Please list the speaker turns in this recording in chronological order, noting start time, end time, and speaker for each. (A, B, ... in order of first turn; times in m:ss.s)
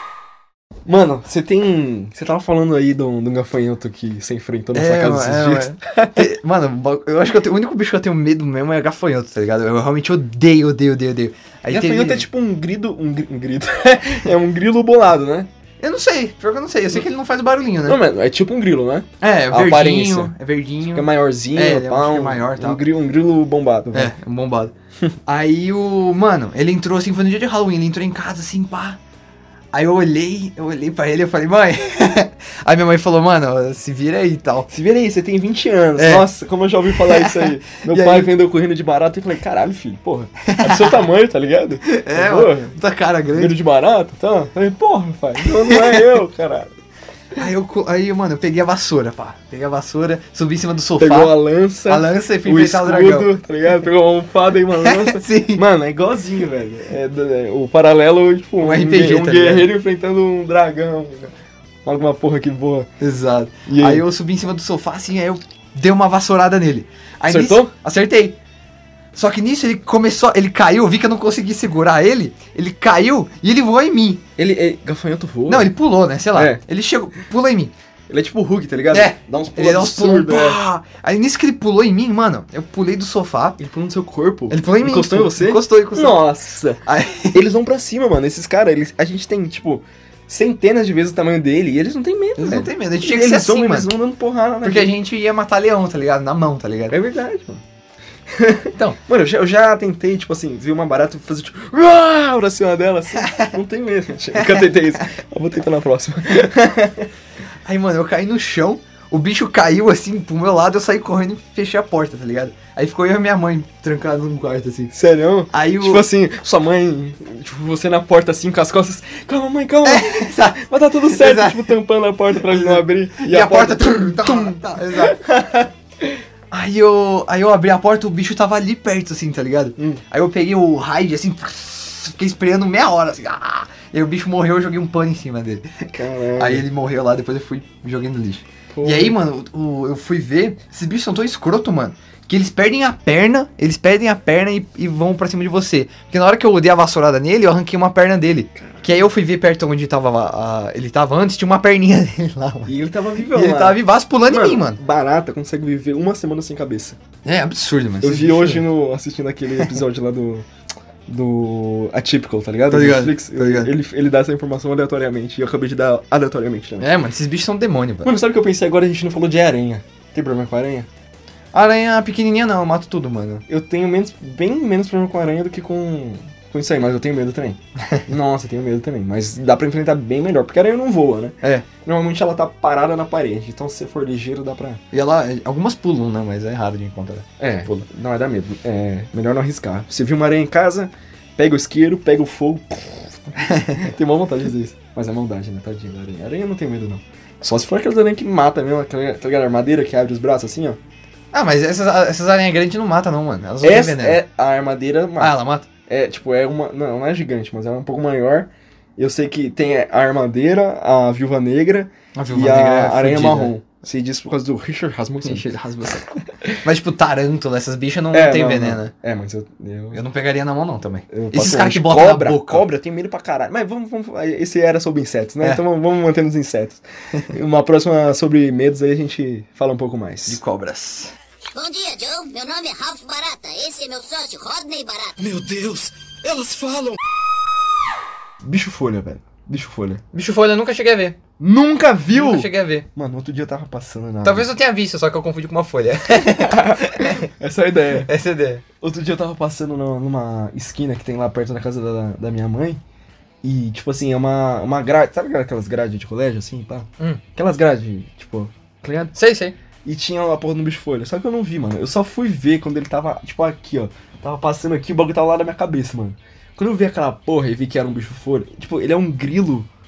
0:00.8-0:06.2 A
0:04.7-0:12.3 B
0:11.7-0:15.5 A
0:15.8-0:18.0 B
0:17.8-0:20.3 A
0:19.2-0:22.8 B
0:20.9-0:24.1 A
0:23.9-0:24.7 B
0:25.2-0:29.0 B
0:29.7-0:34.7 B
0:34.7-0:42.8 A
0:36.0-0:36.3 B
0:37.0-0:38.3 B
0:40.4-0:41.0 B
0:41.8-0:43.5 B
0:43.3-0:46.7 A
0:45.4-0:46.0 B
0:47.4-0:53.3 B
0:51.0-1:01.3 A
0:54.8-0:55.6 B
0:58.6-0:59.7 B
1:01.8-1:02.9 A
1:03.0-1:08.4 B
1:03.6-1:04.0 A
1:07.3-1:07.7 A
1:09.1-1:14.2 B
1:14.4-1:15.7 A
1:15.5-1:17.7 B
1:16.3-1:16.6 A
1:18.1-1:20.6 A
1:18.9-1:23.6 B
1:23.6-1:34.9 A
1:24.5-1:27.5 B
1:32.4-1:33.9 B
1:34.6-1:37.0 B
1:36.9-1:37.6 A
1:38.3-1:47.1 A
1:38.7-1:39.0 B
1:44.4-1:44.6 B
1:47.6-1:55.0 B
1:54.9-2:06.2 A
1:55.5-1:56.0 B
1:59.8-2:01.7 B
2:02.4-2:05.2 B
2:06.5-2:32.7 B
2:09.8-2:10.0 A
2:15.9-2:16.6 A
2:18.7-2:19.2 A
2:28.6-2:28.9 A
2:32.6-2:37.0 A
2:33.3-2:34.8 B
2:37.2-2:38.6 B
2:38.0-2:40.5 A
2:41.1-2:46.9 A
2:42.7-2:43.7 B
2:46.8-2:48.1 B
2:48.0-2:50.9 A
2:51.5-2:53.4 B
2:53.5-3:04.8 A
3:04.9-3:07.8 B
3:07.4-3:13.1 A
3:13.4-3:13.9 B
3:13.8-3:20.8 A
3:21.3-3:24.2 B
3:23.6-3:36.6 A
3:25.2-3:25.7 B
3:32.1-3:33.5 B
3:35.2-3:36.0 B
3:36.6-3:38.9 B
3:38.1-3:40.0 A
3:39.9-3:42.6 B
3:41.1-3:50.4 A
3:50.3-3:51.1 B
3:51.5-3:55.2 C
3:58.4-4:00.0 A
4:00.1-4:01.2 B
4:01.4-4:04.5 A
4:02.1-4:02.8 B
4:04.2-4:07.3 B
4:06.2-4:08.1 A
4:08.0-4:08.6 B
4:08.8-4:12.8 A
4:13.4-4:19.1 A
4:19.1-4:19.6 B
4:19.8-4:29.7 A